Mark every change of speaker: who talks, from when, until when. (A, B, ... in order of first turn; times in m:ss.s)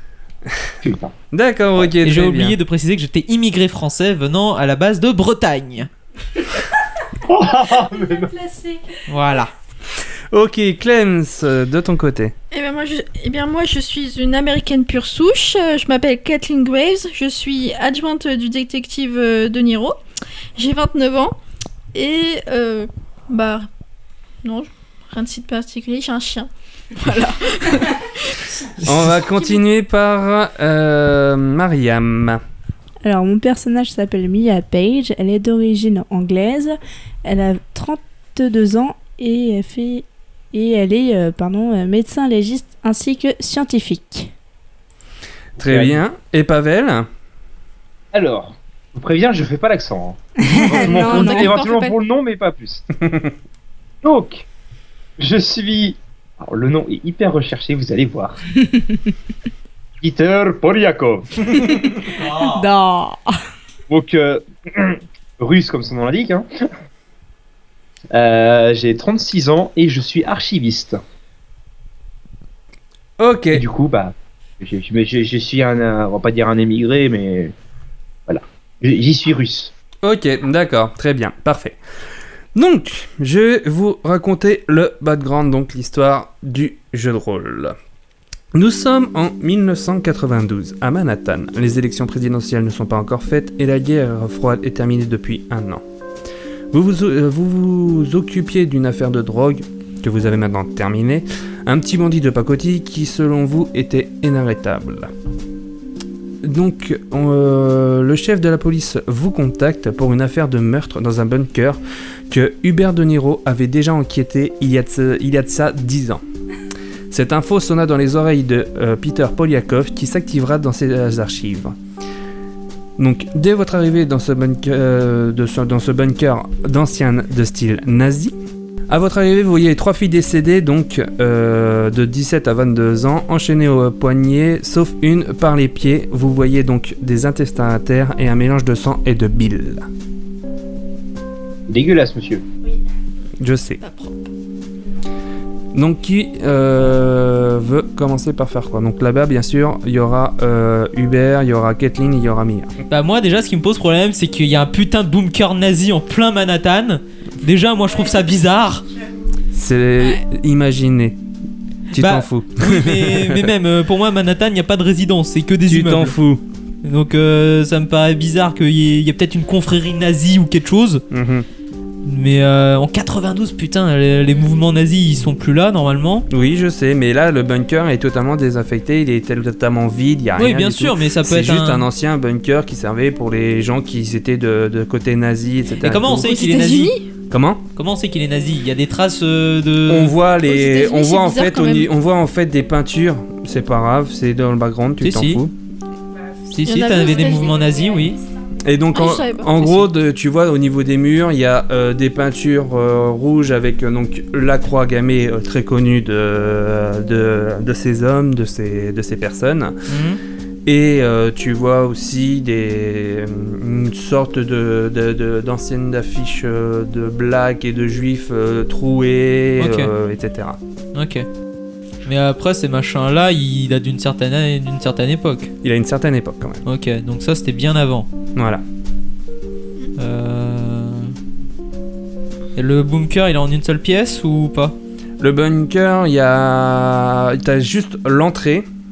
0:00.8-0:01.1 A
0:01.3-0:02.6 B
0:01.8-0:05.9 C
0:07.2-0:08.4 A
0:09.1-0:09.5 C
0:10.3-0:12.3 B
0:12.5-0:20.0 D
0:20.6-0:21.4 D
0:21.9-0:23.7 D
0:24.4-0:28.8 D
0:28.8-0:32.4 B
0:33.0-0:44.3 E
0:45.6-0:46.0 A
0:45.6-0:47.1 B
0:48.1-0:53.0 A
0:50.4-0:51.5 E
0:50.7-0:52.0 D
0:54.0-0:54.5 A
0:55.2-0:58.4 A
0:58.7-0:59.0 E
1:00.0-1:02.1 A
1:02.1-1:02.6 C
1:02.3-1:03.4 E
1:03.9-1:06.5 A
1:08.1-1:11.0 A
1:13.2-1:13.6 B
1:13.5-1:17.5 A
1:18.3-1:19.7 A
1:20.0-1:21.8 B
1:22.5-1:27.8 B
1:28.5-1:35.8 B
1:36.7-1:45.1 B
1:46.4-1:56.2 B
1:57.1-2:01.8 B
2:03.0-2:08.3 B
2:08.9-2:19.9 B
2:21.7-2:22.4 A
2:23.4-2:23.8 B
2:23.8-2:24.3 D
2:25.7-2:32.7 B
2:32.9-2:38.9 C
2:39.5-2:41.2 B
2:41.9-2:46.1 C
2:41.9-2:43.5 B
2:45.7-2:46.4 B
2:46.8-2:51.0 C
2:51.1-2:51.5 B
2:52.0-2:56.3 C
2:56.3-3:06.3 B
3:00.4-3:01.8 C
3:05.8-3:06.9 C
3:06.2-3:07.0 D
3:07.3-3:07.6 B
3:07.8-3:10.2 C
3:09.9-3:15.5 B
3:10.4-3:11.9 D
3:15.0-3:15.4 C
3:16.5-3:18.2 C
3:16.6-3:17.7 D
3:18.6-3:29.8 B
3:18.9-3:19.5 D
3:19.6-3:19.8 C
3:29.9-3:30.2 C
3:30.6-3:40.6 B
3:39.6-3:39.9 C
3:40.9-3:41.2 C
3:42.0-3:45.5 C
3:45.6-3:46.6 B
3:46.6-3:48.1 C
3:48.4-3:48.6 B
3:50.0-3:51.1 C
3:52.6-3:54.8 C
3:55.2-3:58.7 B